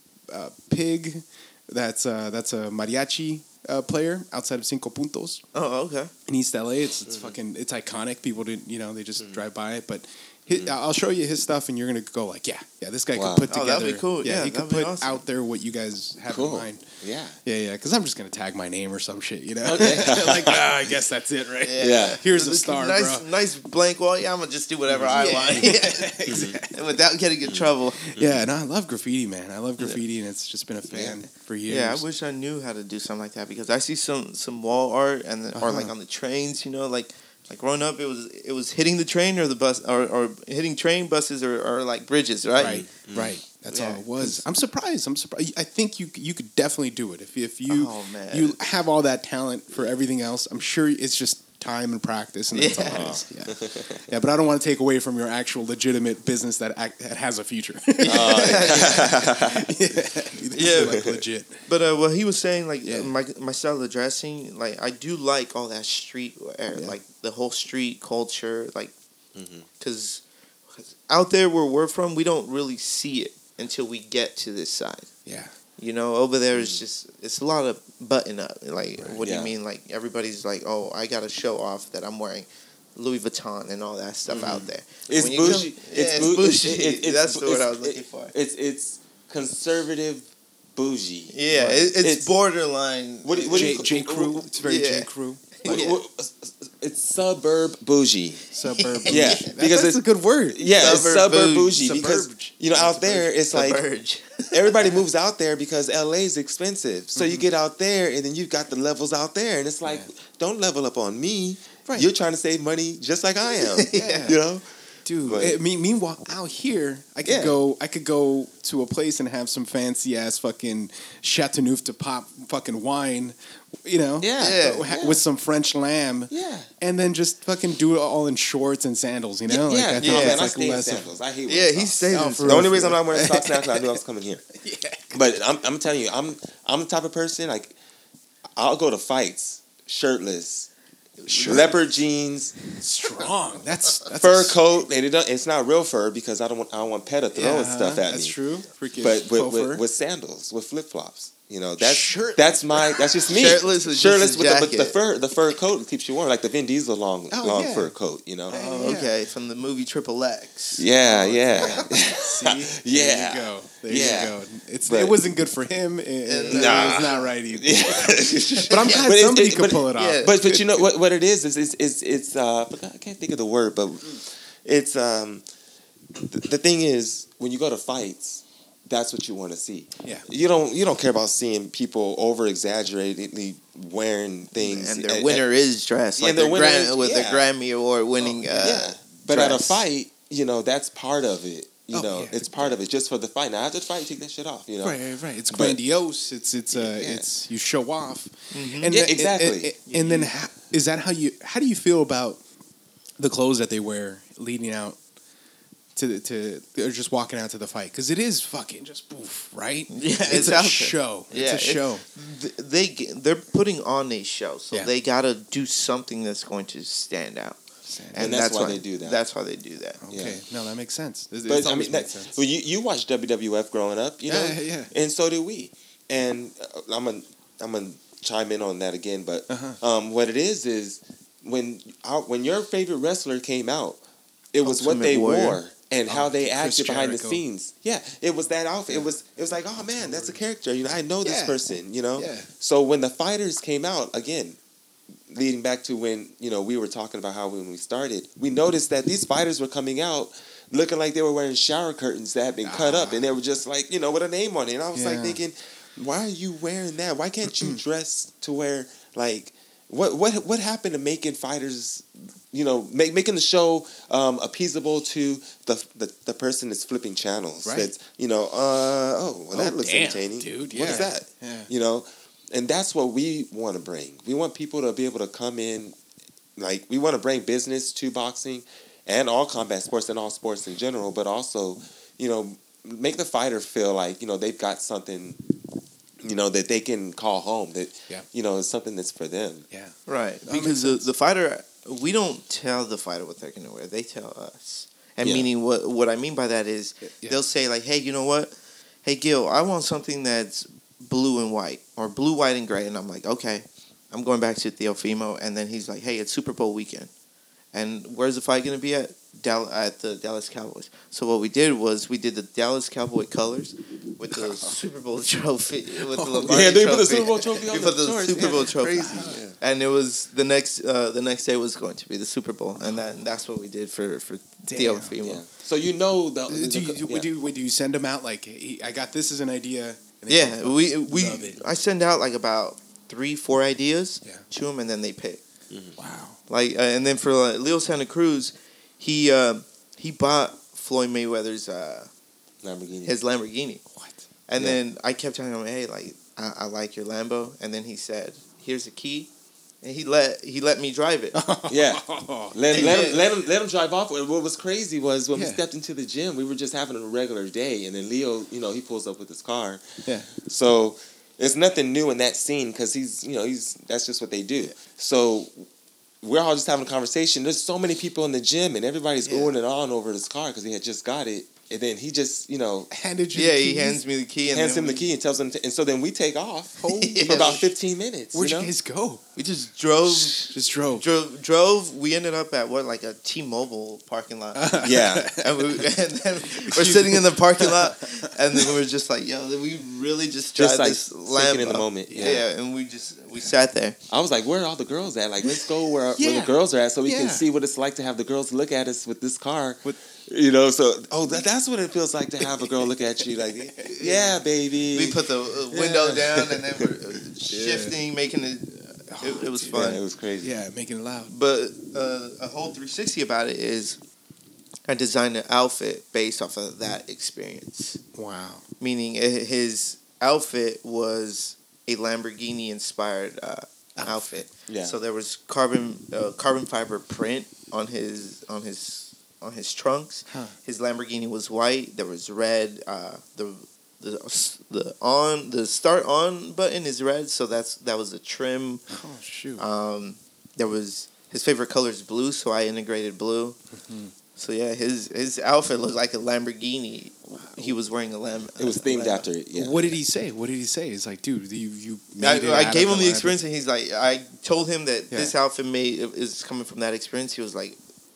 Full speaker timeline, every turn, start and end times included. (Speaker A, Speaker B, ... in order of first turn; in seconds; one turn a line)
Speaker A: 0.3-5.4
Speaker B: 5.5-6.1
Speaker A: 6.3-16.8
Speaker C: 7.1-7.3
Speaker C: 9.2-9.4
Speaker C: 10.5-10.7
Speaker C: 13.1-13.5
Speaker B: 13.5-15.2
Speaker C: 16.3-17.4
Speaker A: 17.4-23.2
Speaker C: 19.6-20.7
Speaker B: 21.6-28.1
Speaker C: 21.8-22.2
Speaker A: 25.0-26.8
Speaker C: 26.3-26.6
Speaker C: 27.4-28.4
Speaker A: 28.0-32.0
Speaker C: 30.9-31.2
Speaker B: 31.7-42.8
Speaker A: 35.5-35.9
Speaker A: 42.6-61.6
Speaker C: 42.6-43.4
Speaker B: 43.7-44.2
Speaker B: 47.7-48.6
Speaker B: 52.5-53.2
Speaker C: 52.9-54.0
Speaker B: 58.0-59.3
Speaker C: 58.1-59.7
Speaker B: 60.5-61.1
Speaker C: 60.8-61.2
Speaker B: 61.6-68.9
Speaker A: 62.9-63.1
Speaker C: 69.3-69.7
Speaker B: 69.8-70.2
Speaker B: 70.7-75.1
Speaker A: 75.2-75.5
Speaker B: 75.8-88.3
Speaker C: 76.5-76.8
Speaker C: 79.2-79.5
Speaker C: 84.3-91.3
Speaker B: 91.3-93.8
Speaker A: 91.5-91.9
Speaker C: 92.0-92.3
Speaker C: 93.2-94.5
Speaker A: 93.5-95.4
Speaker B: 94.6-96.0
Speaker C: 95.6-98.4
Speaker A: 98.5-100.8
Speaker B: 98.7-99.5
Speaker C: 99.0-103.8
Speaker B: 100.7-101.8
Speaker A: 101.7-103.3
Speaker B: 103.3-104.7
Speaker C: 104.5-114.6
Speaker A: 107.1-107.4
Speaker B: 113.6-114.4
Speaker A: 113.9-114.4
Speaker A: 115.0-131.1
Speaker C: 115.2-115.6
Speaker C: 117.2-117.5
Speaker C: 124.2-125.2
Speaker B: 124.4-124.9
Speaker C: 126.3-126.7
Speaker C: 129.5-134.4
Speaker B: 130.0-130.4
Speaker B: 131.5-133.0
Speaker A: 132.1-134.0
Speaker A: 134.5-135.2
Speaker C: 135.1-137.7
Speaker C: 138.6-140.7
Speaker B: 141.2-141.8
Speaker A: 141.3-141.7
Speaker C: 141.4-142.6
Speaker A: 142.8-144.6
Speaker C: 144.2-148.3
Speaker A: 147.3-149.8
Speaker C: 149.0-158.6
Speaker A: 151.8-152.9
Speaker B: 153.3-154.9
Speaker A: 157.3-157.9
Speaker A: 158.5-159.1
Speaker B: 158.5-160.9
Speaker C: 160.8-164.3
Speaker A: 161.1-170.9
Speaker B: 161.5-161.8
Speaker C: 164.9-165.2
Speaker B: 166.2-167.3
Speaker C: 166.5-175.4
Speaker B: 168.7-169.0
Speaker B: 169.9-170.3
Speaker C: 176.1-185.4
Speaker B: 184.6-189.8
Speaker C: 186.2-187.4
Speaker C: 188.6-195.8
Speaker A: 191.9-192.7
Speaker A: 194.8-202.4
Speaker C: 196.7-197.3
Speaker B: 198.5-199.0
Speaker C: 198.9-200.2
Speaker B: 200.0-200.3
Speaker A: 203.2-205.0
Speaker A: 205.9-212.0
Speaker B: 209.9-217.6
Speaker A: 217.9-218.2
Speaker B: 218.1-220.0
Speaker C: 218.2-219.2
Speaker A: 220.0-222.3
Speaker C: 220.1-220.4
Speaker C: 221.4-234.0
Speaker A: 224.3-224.9
Speaker A: 229.5-229.8
Speaker C: 234.5-244.6
Speaker B: 234.6-235.6
Speaker A: 236.1-237.4
Speaker A: 239.7-240.4
Speaker A: 241.2-241.6
Speaker A: 242.2-242.5
Speaker C: 245.3-276.0
Speaker A: 252.6-253.3
Speaker A: 254.9-255.4
Speaker A: 257.5-257.8
Speaker A: 267.6-267.9
Speaker A: 269.5-271.7
Speaker C: 276.6-285.4
Speaker C: 286.2-289.6
Speaker A: 289.7-291.1
Speaker B: 290.1-307.1
Speaker C: 295.2-295.5
Speaker A: 297.0-297.4
Speaker B: 307.7-325.4
Speaker A: 314.3-314.7
Speaker A: 316.1-316.7
Speaker C: 316.4-319.6
Speaker A: 319.0-319.4
Speaker A: 322.8-323.1
Speaker A: 324.7-325.1
Speaker C: 325.2-327.3
Speaker A: 326.5-331.6
Speaker B: 330.3-335.4
Speaker C: 335.7-336.0
Speaker A: 336.0-336.4
Speaker B: 336.5-342.1
Speaker C: 342.6-343.1
Speaker B: 343.0-343.8
Speaker B: 344.5-349.3
Speaker B: 349.8-351.4
Speaker A: 351.3-352.8
Speaker C: 351.7-359.8
Speaker B: 352.7-353.2
Speaker A: 355.3-355.6
Speaker A: 360.1-360.3
Speaker C: 360.4-365.6
Speaker C: 366.2-372.9
Speaker B: 369.2-369.6
Speaker A: 372.9-374.0
Speaker B: 373.3-375.0
Speaker C: 374.4-378.7
Speaker A: 376.8-377.6
Speaker B: 376.9-377.7
Speaker A: 378.3-379.3
Speaker B: 379.4-394.0
Speaker A: 380.0-381.0
Speaker A: 384.5-385.9
Speaker C: 384.8-385.3
Speaker A: 386.5-388.7
Speaker C: 390.5-392.4
Speaker A: 392.1-392.4
Speaker C: 394.1-406.9
Speaker A: 396.1-397.4
Speaker B: 403.9-404.4
Speaker B: 404.9-410.0
Speaker A: 407.5-407.9
Speaker A: 409.1-409.7
Speaker C: 409.7-410.6
Speaker A: 410.4-411.3
Speaker B: 411.3-414.0
Speaker B: 414.9-418.0
Speaker A: 418.1-418.6
Speaker B: 418.8-438.9
Speaker A: 424.0-424.2
Speaker C: 424.7-424.9
Speaker A: 438.9-439.6
Speaker B: 439.6-443.6
Speaker A: 443.7-444.1
Speaker B: 444.4-449.3
Speaker A: 447.3-447.7
Speaker C: 448.6-450.0
Speaker A: 449.5-453.4
Speaker B: 452.2-457.8